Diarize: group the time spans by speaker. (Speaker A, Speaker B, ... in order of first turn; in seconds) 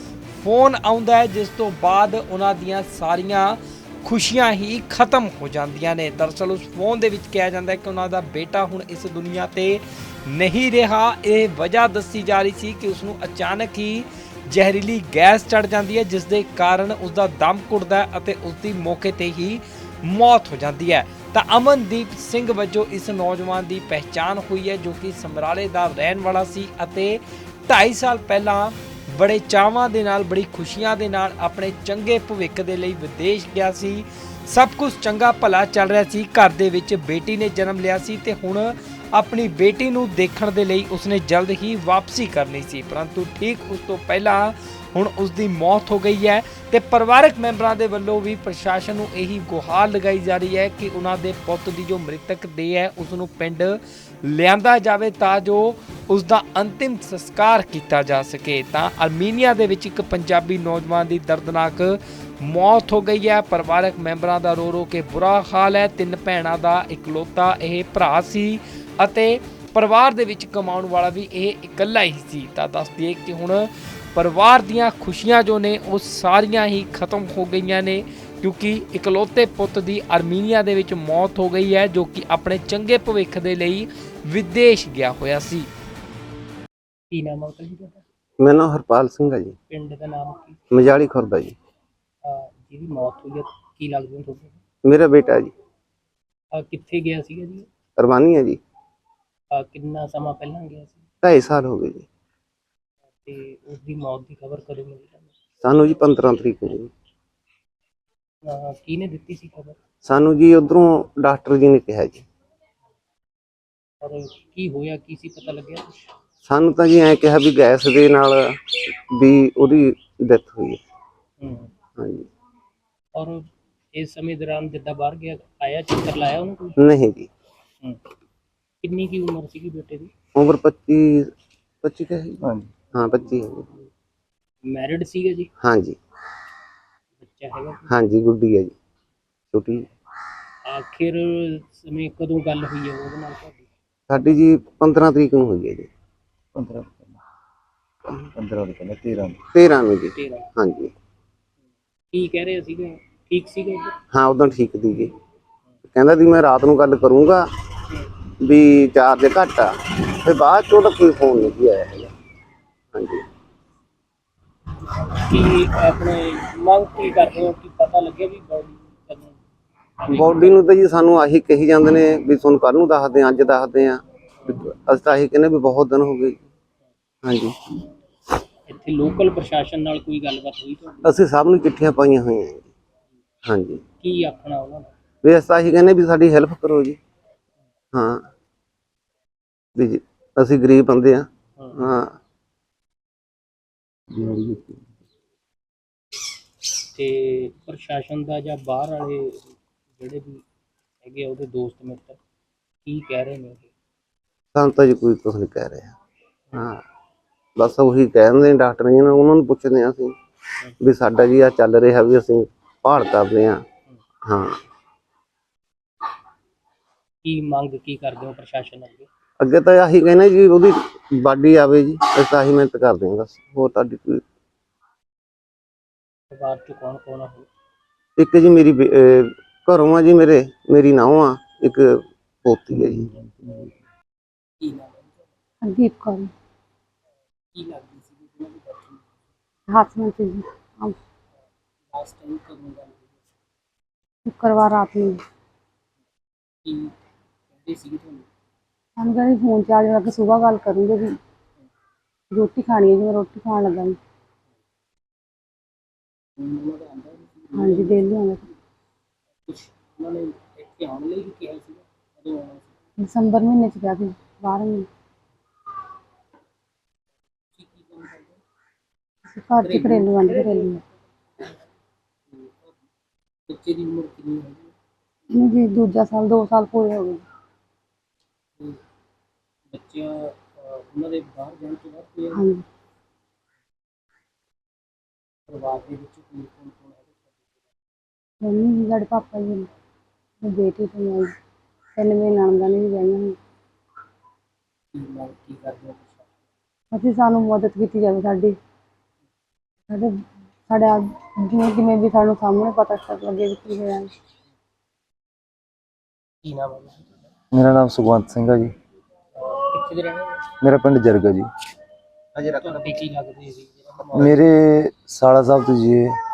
Speaker A: 0.3-85.7
Speaker B: 87.1-88.0, 89.7-90.6, 92.2-94.6, 96.5-97.7, 99.5-101.0, 103.2-105.3, 108.4-109.8, 114.0-116.0, 121.4-121.7, 123.1-126.8, 128.8-130.1, 134.6-135.5, 137.2-137.9, 140.7-143.7, 150.1-150.5, 152.1-154.0, 164.9-169.4, 170.0-170.6, 178.7-181.2, 184.0-184.9, 191.6-192.0, 196.9-200.4, 201.0-202.2, 202.8-203.7, 217.2-219.1, 226.3-227.5, 234.6-235.2, 237.5-239.0, 241.9-243.1, 246.6-246.9, 247.6-248.3, 256.4-258.0, 259.4-262.7, 267.5-268.4, 269.6-270.4, 272.3-272.7, 273.5-274.7, 279.7-282.4, 285.5-287.1, 294.9-296.3, 306.4-307.1, 309.3-310.4, 312.4-314.4
Speaker C: 88.4-89.5, 90.7-91.5, 94.8-95.5, 98.0-98.6, 101.2-102.1, 105.6-106.9, 110.0-112.2, 116.4-120.8, 122.0-122.3, 126.8-127.3, 130.3-131.3, 131.8-133.7, 135.6-136.0, 137.9-138.7, 139.5-139.9, 144.1-145.9, 149.5-150.9, 154.1-155.1, 155.9-157.5, 158.4-162.1, 162.9-163.2, 170.1-176.4, 177.2-177.5, 181.0-182.7, 183.4-183.8, 185.2-187.0, 187.9-188.3, 189.7-192.1, 204.5-205.9, 206.5-206.8, 207.6-210.1, 210.8-213.6, 214.2-214.6, 219.4-224.2, 228.2-233.1
Speaker D: 132.4-132.7, 146.5-147.1, 148.3-149.4, 194.1-194.8, 232.7-233.7, 307.5-308.7, 310.6-311.5, 314.1-316.1
Speaker E: 235.6-236.3, 239.7-240.9, 244.2-245.2, 249.0-251.2, 252.3-254.0, 257.5-258.4, 263.0-264.9, 269.3-270.8, 275.3-277.2, 282.3-282.6, 288.4-289.7, 290.4-291.3, 291.9-293.4, 296.9-298.6, 299.9-304.1